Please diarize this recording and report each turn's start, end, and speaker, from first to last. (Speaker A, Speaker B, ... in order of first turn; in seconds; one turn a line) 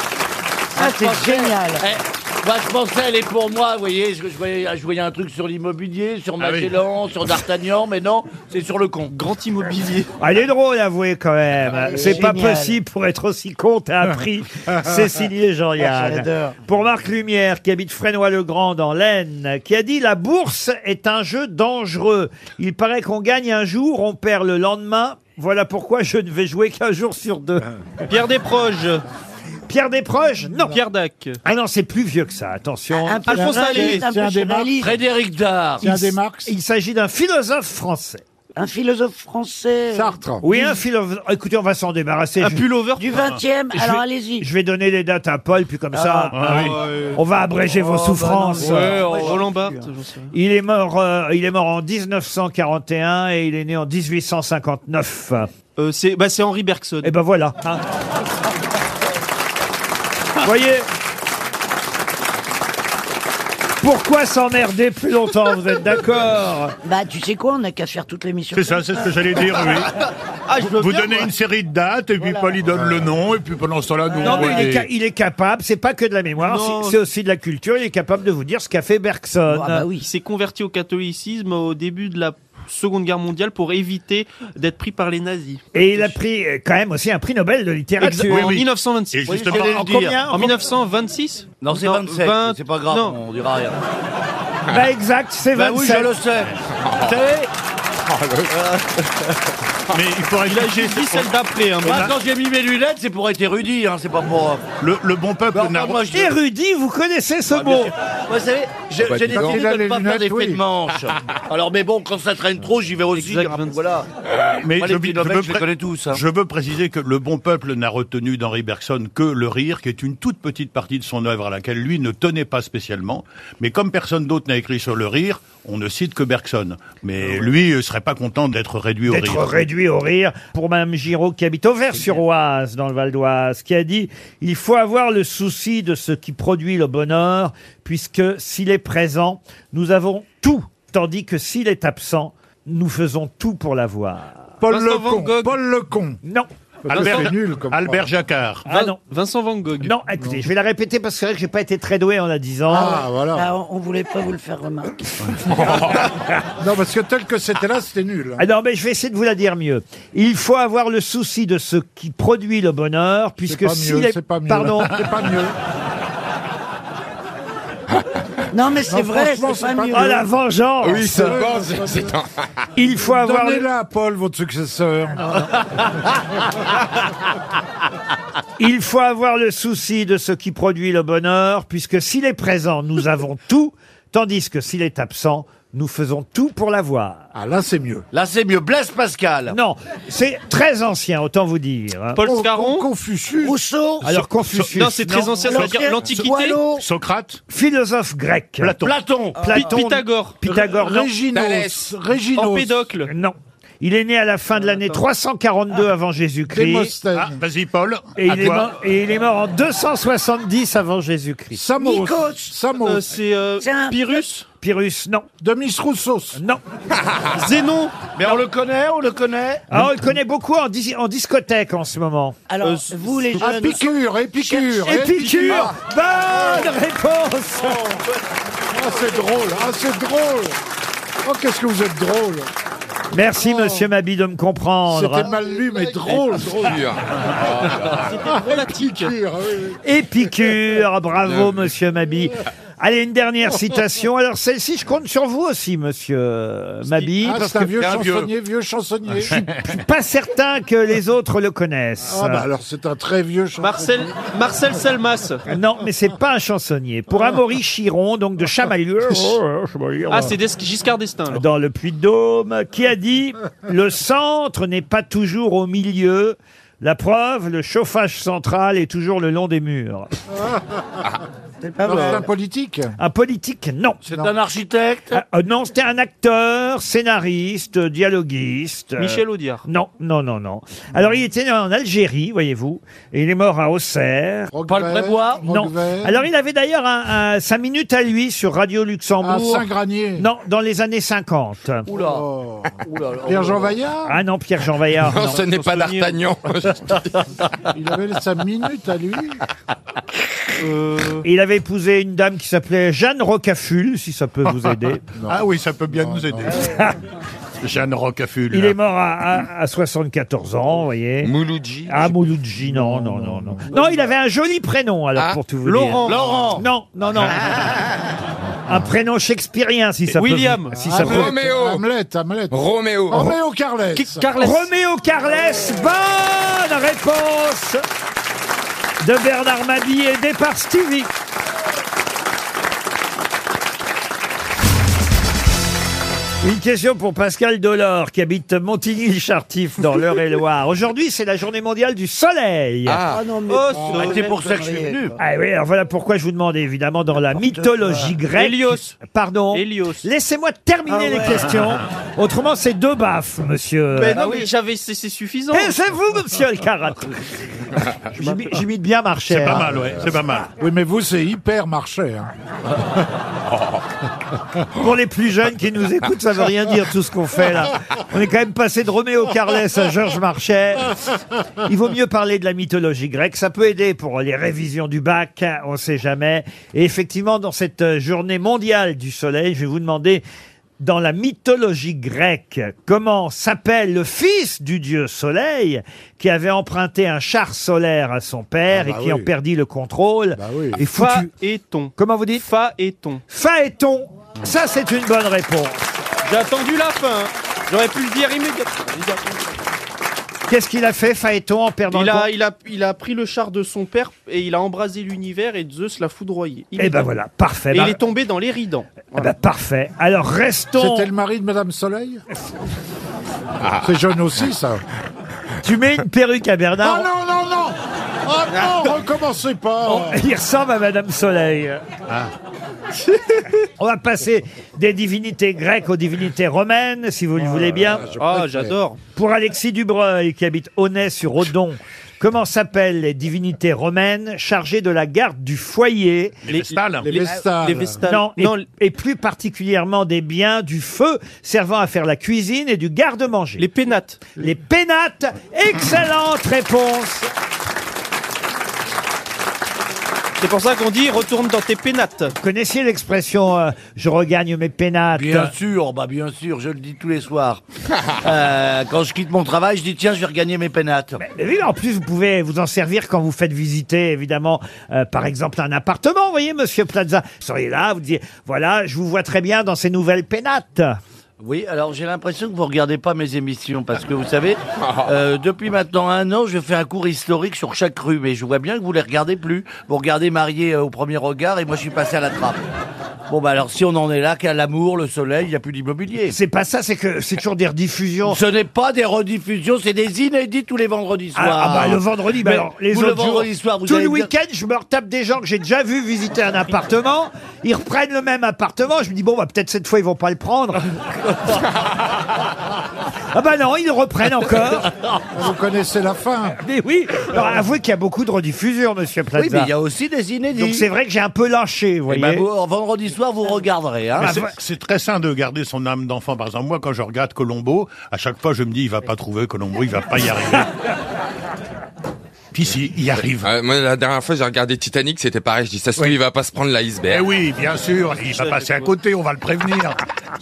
Speaker A: 0.8-1.8
Speaker B: 0.8-9.1
Speaker C: 6.4-6.7
Speaker D: 9.1-10.1
Speaker E: 10.2-27.7
Speaker A: 11.7-12.8
Speaker A: 15.8-16.6
Speaker D: 28.1-29.0
Speaker E: 29.7-30.8
Speaker D: 30.7-31.4
Speaker E: 31.4-33.4
Speaker A: 33.0-35.0
Speaker D: 33.2-34.0
Speaker F: 33.3-34.8
Speaker B: 34.8-36.1
Speaker F: 35.8-36.5
Speaker E: 36.5-38.2
Speaker A: 38.5-40.2
Speaker F: 39.9-40.8
Speaker E: 40.4-42.6
Speaker D: 42.4-43.2
Speaker A: 43.0-44.5
Speaker E: 43.8-49.0
Speaker A: 45.9-46.7
Speaker C: 46.3-46.8
Speaker D: 46.5-47.1
Speaker A: 47.7-49.9
Speaker D: 48.6-50.3
Speaker B: 48.7-49.2
Speaker E: 50.3-55.5
Speaker D: 55.8-57.1
Speaker E: 57.0-57.8
Speaker E: 60.4-60.9
Speaker E: 63.8-66.7
Speaker A: 66.8-68.9
Speaker C: 68.5-69.9
Speaker D: 70.5-71.3
Speaker C: 70.6-74.9
Speaker A: 72.2-72.5
Speaker E: 74.2-79.9
Speaker D: 76.4-77.0
Speaker A: 79.5-80.0
Speaker D: 80.0-86.1
Speaker E: 85.7-88.5
Speaker B: 88.0-88.6
Speaker C: 88.2-90.1
Speaker D: 88.3-89.5
Speaker B: 89.3-90.2
Speaker E: 89.5-90.6
Speaker D: 90.3-93.2
Speaker B: 91.6-93.8
Speaker E: 94.7-96.1
Speaker B: 95.5-97.5
Speaker G: 96.8-97.2
Speaker G: 98.0-98.5
Speaker B: 98.5-98.9
Speaker C: 99.9-101.3
Speaker D: 100.4-102.2
Speaker B: 101.8-104.7
Speaker C: 104.8-106.0
Speaker B: 105.5-106.3
Speaker E: 106.1-107.9
Speaker B: 107.5-114.1
Speaker G: 109.0-109.6
Speaker F: 109.2-110.6
Speaker D: 113.1-113.8
Speaker C: 114.6-129.7
Speaker B: 114.7-116.2
Speaker E: 129.1-144.3
Speaker F: 144.6-146.2
Speaker D: 144.7-145.6
Speaker E: 146.2-146.5
Speaker F: 146.8-148.1
Speaker D: 146.9-147.3
Speaker C: 146.9-148.7
Speaker E: 148.7-149.0
Speaker D: 148.7-149.9
Speaker E: 149.8-153.0
Speaker F: 152.7-153.5
Speaker A: 152.7-155.8
Speaker G: 155.5-156.1
Speaker F: 156.6-158.4
Speaker E: 158.4-165.0
Speaker F: 163.4-165.6
Speaker A: 168.5-170.2
Speaker F: 168.9-170.2
Speaker E: 169.9-171.4
Speaker G: 170.8-172.3
Speaker F: 171.1-172.1
Speaker E: 172.8-173.7
Speaker F: 172.8-175.5
Speaker E: 178.6-187.3
Speaker F: 187.3-188.1
Speaker B: 188.1-189.6
Speaker E: 189.5-192.2
Speaker D: 192.2-192.9
Speaker F: 192.2-193.6
Speaker A: 193.4-194.1
Speaker E: 194.0-195.4
Speaker D: 194.7-196.6
Speaker A: 195.4-196.8
Speaker C: 196.2-197.4
Speaker E: 197.5-201.1
Speaker B: 198.6-199.7
Speaker A: 199.4-199.7
Speaker D: 199.5-200.3
Speaker F: 200.7-202.9
Speaker G: 201.3-201.8
Speaker D: 202.3-203.1
Speaker E: 203.1-206.9
Speaker F: 206.5-207.4
Speaker C: 207.1-208.7
Speaker E: 208.2-211.6
Speaker F: 211.5-213.1
Speaker A: 211.8-212.5
Speaker D: 212.8-214.4
Speaker A: 213.6-214.2
Speaker E: 214.6-215.3
Speaker F: 215.4-216.4
Speaker E: 216.3-216.6
Speaker D: 217.3-218.0
Speaker B: 218.2-219.7
Speaker E: 219.7-222.4
Speaker A: 222.5-225.0
Speaker D: 222.6-223.8
Speaker F: 223.4-225.7
Speaker E: 224.8-227.8
Speaker D: 225.2-225.7
Speaker F: 226.3-226.7
Speaker D: 227.6-228.2
Speaker F: 228.7-230.6
Speaker F: 231.2-232.5
Speaker E: 233.1-235.3
Speaker F: 233.4-233.9
Speaker F: 234.9-236.8
Speaker G: 236.5-238.1
Speaker D: 237.8-239.2
Speaker F: 238.3-239.8
Speaker E: 239.8-247.5
Speaker B: 246.8-248.3
Speaker F: 247.2-249.4
Speaker C: 249.3-249.6
Speaker E: 249.4-252.5
Speaker F: 252.0-254.1
Speaker D: 253.6-255.4
Speaker E: 255.5-260.4
Speaker D: 260.1-261.4
Speaker E: 261.3-270.1
Speaker A: 271.6-272.3
Speaker F: 271.8-273.0
Speaker E: 273.0-274.0
Speaker B: 274.1-275.2
Speaker E: 275.1-284.5
Speaker D: 279.0-279.6
Speaker F: 284.5-286.2
Speaker B: 284.7-285.5
Speaker E: 285.5-291.9
Speaker F: 289.2-290.3
Speaker B: 291.9-292.2
Speaker F: 291.9-292.7
Speaker B: 292.8-293.8
Speaker F: 293.2-294.2
Speaker E: 294.1-295.4
Speaker G: 295.0-297.2
Speaker D: 295.4-296.2
Speaker F: 297.7-299.4
Speaker D: 300.6-301.2
Speaker E: 301.2-305.0
Speaker F: 305.1-306.6
Speaker C: 305.2-306.6
Speaker E: 306.6-307.0
Speaker C: 307.6-308.8
Speaker E: 308.5-311.3
Speaker G: 311.2-312.2
Speaker E: 311.9-317.5
Speaker F: 312.6-313.7
Speaker D: 315.6-316.5
Speaker B: 316.0-316.6
Speaker G: 317.3-317.8
Speaker E: 318.6-321.4
Speaker D: 320.1-320.8
Speaker F: 320.8-324.2
Speaker G: 321.0-321.8
Speaker G: 322.5-323.2
Speaker D: 323.9-324.7
Speaker E: 324.4-327.8
Speaker E: 329.0-331.1
Speaker E: 336.4-343.0
Speaker G: 342.9-343.3
Speaker A: 343.1-345.1
Speaker D: 343.5-344.4
Speaker B: 343.9-345.1
Speaker E: 345.2-354.4
Speaker A: 347.4-348.1
Speaker D: 348.4-349.0
Speaker D: 349.5-350.1
Speaker A: 350.9-351.5
Speaker D: 353.9-355.8
Speaker E: 355.5-357.2
Speaker E: 357.8-359.7
Speaker D: 358.2-358.6
Speaker C: 359.3-360.5
Speaker F: 360.6-362.3
Speaker E: 364.8-371.1
Speaker E: 371.6-380.2
Speaker E: 380.8-391.3
Speaker F: 388.7-389.3
Speaker F: 390.4-390.8
Speaker D: 390.8-393.2
Speaker E: 392.0-392.4
Speaker E: 393.3-395.8
Speaker D: 396.2-399.6
Speaker E: 400.5-402.3
Speaker D: 401.9-407.1
Speaker E: 406.8-408.0
Speaker D: 407.7-409.3
Speaker E: 409.1-411.1
Speaker F: 410.8-412.2
Speaker F: 413.8-414.8
Speaker E: 415.6-417.1
Speaker F: 416.8-420.2
Speaker D: 418.5-418.8
Speaker E: 419.9-421.8
Speaker E: 423.8-428.1
Speaker F: 427.4-428.8
Speaker D: 428.2-429.0
Speaker E: 429.1-436.3
Speaker C: 436.4-437.1
Speaker D: 436.5-438.6
Speaker F: 437.0-438.0
Speaker E: 438.1-443.6
Speaker D: 443.6-444.2
Speaker E: 444.4-447.3
Speaker D: 450.4-452.3
Speaker E: 452.4-455.5
Speaker B: 455.1-457.6
Speaker B: 458.2-461.2
Speaker E: 461.2-471.0
Speaker B: 471.4-482.6
Speaker G: 474.8-475.1
Speaker B: 483.3-486.4
Speaker E: 486.3-488.4
Speaker B: 488.2-494.3
Speaker E: 491.4-501.5
Speaker E: 503.3-504.9
Speaker F: 505.3-506.6
Speaker E: 506.6-509.7
Speaker B: 509.4-510.9
Speaker E: 510.5-512.5
Speaker B: 512.1-514.4
Speaker E: 514.2-514.5
Speaker C: 514.2-520.7
Speaker C: 522.5-523.5
Speaker G: 523.4-527.3
Speaker C: 527.1-530.0
Speaker D: 528.2-528.9